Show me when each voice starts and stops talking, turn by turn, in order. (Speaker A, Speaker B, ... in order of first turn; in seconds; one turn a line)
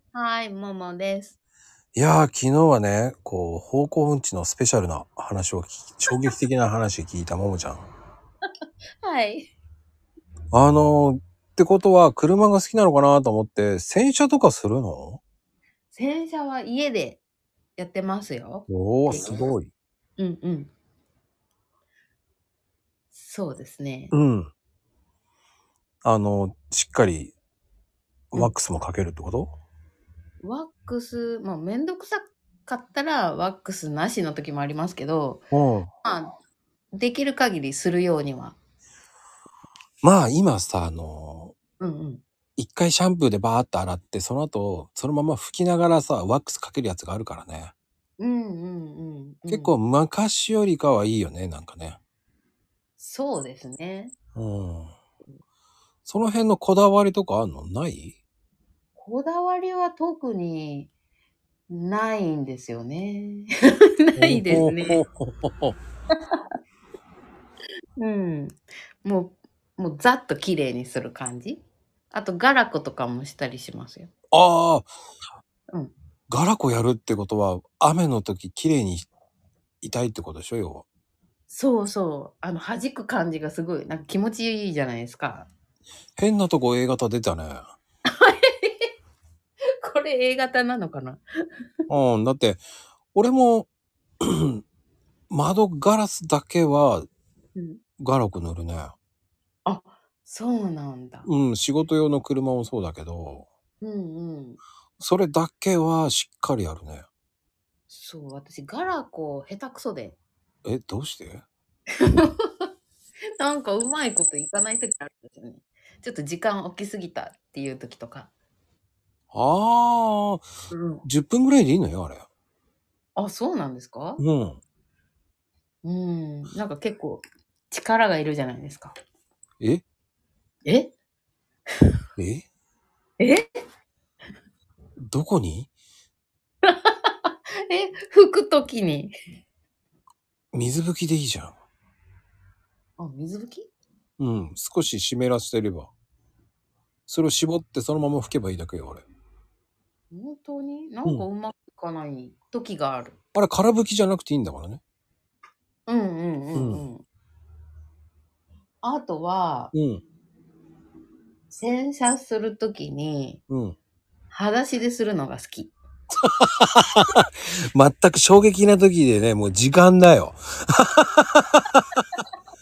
Speaker A: 0.1-1.4
Speaker B: 1.9-7.9
Speaker A: 9.0-9.5
Speaker B: 10.5-15.2
Speaker A: 15.9-17.2
Speaker A: 17.8-19.5
Speaker B: 18.7-19.7
Speaker A: 20.2-20.7
Speaker A: 23.1-24.1
Speaker B: 24.1-24.5
Speaker B: 26.0-27.3
Speaker B: 28.3-29.5
Speaker A: 30.4-35.4
Speaker B: 35.5-35.9
Speaker A: 36.0-36.3
Speaker A: 36.9-38.6
Speaker B: 40.0-41.5
Speaker A: 41.8-42.2
Speaker B: 42.6-47.7
Speaker A: 48.2-49.8
Speaker B: 49.5-52.0
Speaker A: 53.0-54.1
Speaker B: 54.4-54.9
Speaker B: 56.0-58.2
Speaker A: 59.0-60.9
Speaker A: 61.7-65.0
Speaker B: 64.2-65.8
Speaker A: 66.1-66.4
Speaker A: 68.0-74.1
Speaker B: 74.3-74.9
Speaker B: 76.3-79.1
Speaker B: 79.8-80.9
Speaker A: 81.5-85.5
Speaker B: 86.2-87.7
Speaker A: 88.1-88.9
Speaker A: 89.8-91.2
Speaker B: 91.9-92.6
Speaker B: 93.1-93.7
Speaker B: 94.2-94.6
Speaker B: 95.3-97.1
Speaker A: 97.6-97.8
Speaker B: 98.0-99.0
Speaker A: 99.7-101.3
Speaker B: 101.2-103.5
Speaker A: 103.8-104.6
Speaker B: 105.0-107.1
Speaker A: 107.9-110.2
Speaker B: 110.7-111.4
Speaker A: 112.0-112.7
Speaker A: 113.4-118.3
Speaker B: 119.3-120.4
Speaker A: 120.7-121.0
Speaker B: 121.0-122.3
Speaker A: 123.2-124.2
Speaker B: 124.2-124.6
Speaker A: 125.8-128.9
Speaker A: 130.7-130.9
Speaker B: 132.2-132.5
Speaker A: 133.2-133.4
Speaker B: 135.0-135.7
Speaker A: 136.6-139.1
Speaker B: 140.5-141.6
Speaker A: 143.0-143.7
Speaker B: 144.2-145.9
Speaker B: 147.1-149.0
Speaker A: 150.1-153.2
Speaker B: 153.3-154.8
Speaker A: 155.9-157.1
Speaker B: 156.6-156.8
Speaker A: 158.8-159.7
Speaker B: 159.7-160.0
Speaker A: 161.5-163.4
Speaker B: 163.5-163.8
Speaker A: 164.3-165.7
Speaker B: 166.2-172.0